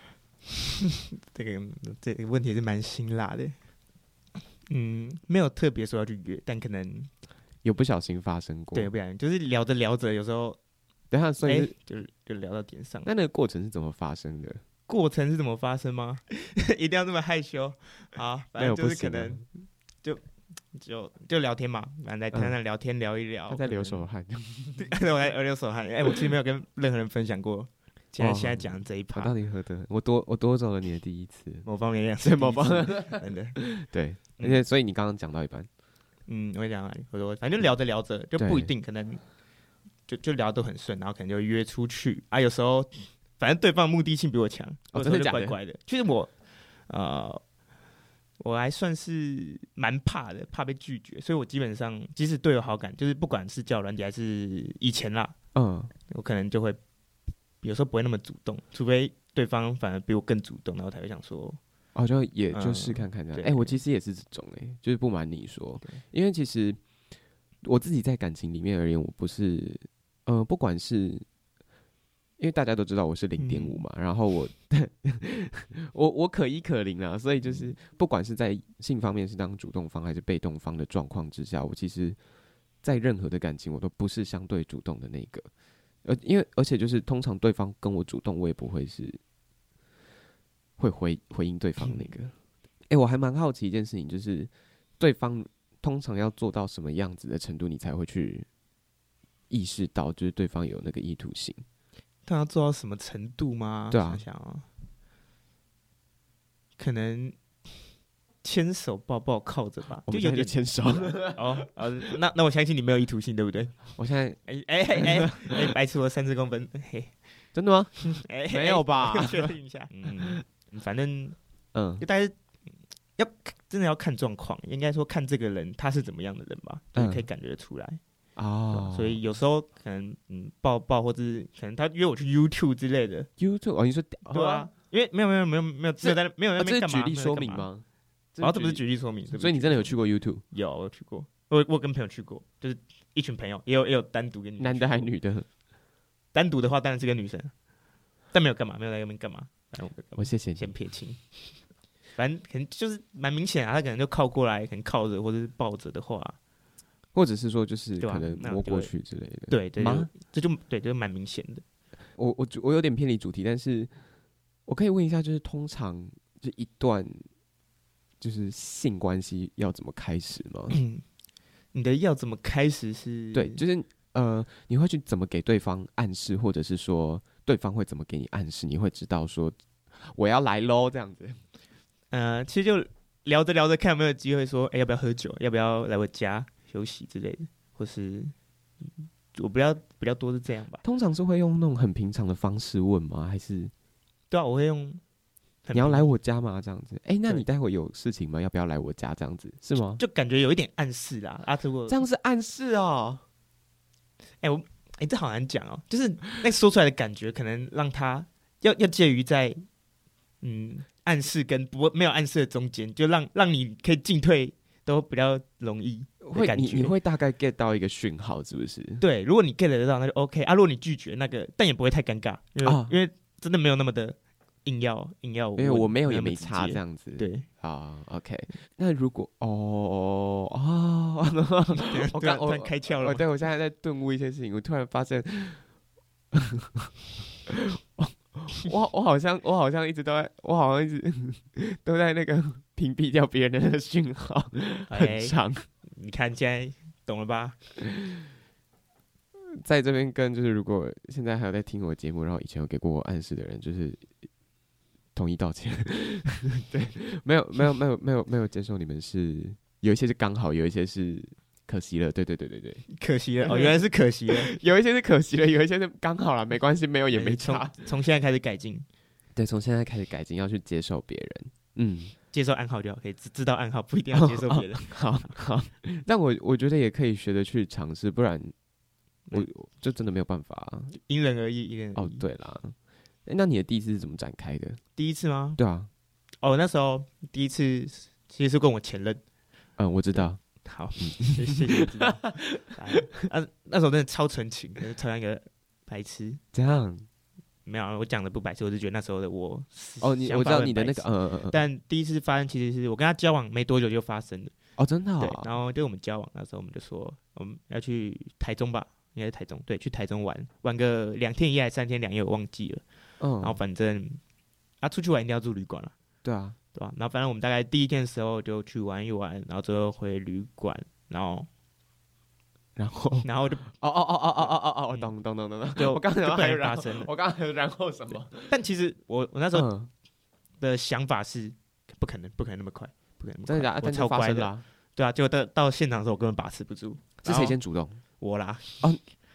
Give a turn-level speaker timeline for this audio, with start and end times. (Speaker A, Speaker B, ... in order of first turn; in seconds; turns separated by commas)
Speaker A: 1.2-3.6, Speaker A: 4.7-7.1, Speaker B: 7.6-8.9, Speaker A: 8.7-10.6, Speaker B: 11.1-11.7, Speaker A: 11.4-13.1, Speaker B: 13.0-14.6, Speaker A: 14.9-19.4, Speaker B: 18.6-19.4, Speaker A: 20.0-24.0, Speaker B: 23.5-24.9, Speaker A: 24.8-29.3, Speaker B: 28.2-31.6, Speaker A: 31.6-33.6, Speaker B: 32.2-35.7, Speaker A: 34.4-34.6, Speaker A: 36.3-39.2, Speaker B: 38.4-38.7, Speaker A: 40.1-46.3, Speaker B: 44.9-45.6, Speaker A: 46.9-47.4, Speaker A: 48.4-55.3, Speaker B: 55.5-55.9, Speaker A: 56.1-56.8, Speaker A: 57.6-61.6, Speaker B: 61.9-66.8, Speaker A: 62.5-63.8, Speaker B: 67.6-71.2, Speaker B: 72.4-82.2, Speaker A: 73.4-73.8, Speaker B: 82.8-85.5, Speaker B: 86.0-89.2, Speaker B: 90.8-92.3, Speaker A: 91.8-92.1, Speaker B: 92.9-98.5, Speaker B: 99.5-101.6, Speaker A: 102.2-104.7, Speaker B: 103.9-104.2, Speaker A: 106.8-107.4, Speaker A: 108.4-113.8, Speaker B: 110.0-111.7, Speaker B: 113.9-114.4, Speaker A: 114.5-117.1, Speaker B: 114.9-115.5, Speaker B: 117.5-120.3, Speaker A: 118.0-121.4, Speaker B: 121.7-122.0, Speaker A: 122.0-122.3, Speaker A: 123.2-128.0, Speaker B: 126.9-127.2, Speaker B: 128.3-129.2, Speaker A: 128.7-133.3, Speaker B: 133.4-134.7, Speaker A: 134.3-137.7, Speaker B: 136.0-138.8, Speaker A: 138.4-139.9, Speaker B: 139.3-140.4, Speaker A: 140.5-145.1, Speaker B: 144.6-145.5, Speaker A: 146.3-147.5, Speaker A: 148.3-151.4, Speaker B: 150.2-150.7, Speaker A: 152.2-156.4, Speaker B: 157.1-160.1, Speaker A: 158.0-158.9, Speaker A: 159.5-161.6, Speaker B: 162.1-163.9, Speaker B: 164.7-167.2, Speaker B: 168.2-170.8, Speaker A: 170.7-171.0, Speaker A: 171.7-173.6, Speaker B: 173.3-181.4, Speaker A: 182.1-190.8, Speaker B: 190.8-193.7, Speaker A: 194.3-195.0, Speaker A: 195.6-196.1, Speaker B: 195.7-200.0, Speaker A: 200.0-202.0, Speaker B: 201.9-203.2, Speaker A: 204.4-209.6, Speaker A: 210.4-216.9, Speaker B: 216.2-219.0, Speaker A: 219.0-227.5, Speaker B: 222.6-222.9, Speaker B: 225.6-235.6, Speaker A: 231.7-233.2, Speaker B: 236.3-236.9, Speaker B: 237.5-245.7, Speaker A: 244.9-247.6, Speaker B: 249.3-254.1, Speaker B: 255.1-262.9, Speaker A: 262.9-264.5, Speaker B: 263.4-263.8, Speaker B: 264.3-267.8, Speaker A: 267.1-268.9, Speaker B: 269.4-272.1, Speaker A: 272.3-275.3, Speaker B: 274.1-278.5, Speaker B: 279.3-281.0, Speaker A: 281.0-282.2, Speaker B: 281.9-284.8, Speaker A: 284.9-285.6, Speaker B: 285.6-285.9, Speaker A: 286.4-289.2, Speaker B: 289.8-290.4, Speaker A: 290.1-296.4, Speaker B: 291.0-292.6, Speaker B: 296.5-297.1, Speaker A: 297.6-304.5, Speaker B: 300.0-301.6, Speaker B: 304.8-305.5, Speaker A: 305.2-312.8, Speaker B: 313.2-313.6, Speaker A: 313.4-314.2, Speaker A: 314.8-315.9, Speaker B: 316.2-316.6, Speaker A: 316.7-321.5, Speaker B: 322.8-328.5, Speaker A: 323.2-323.7, Speaker A: 325.7-327.1, Speaker A: 328.5-329.7, Speaker B: 329.5-329.9, Speaker A: 330.6-337.6, Speaker B: 333.4-334.6, Speaker B: 337.2-338.0, Speaker A: 338.2-338.9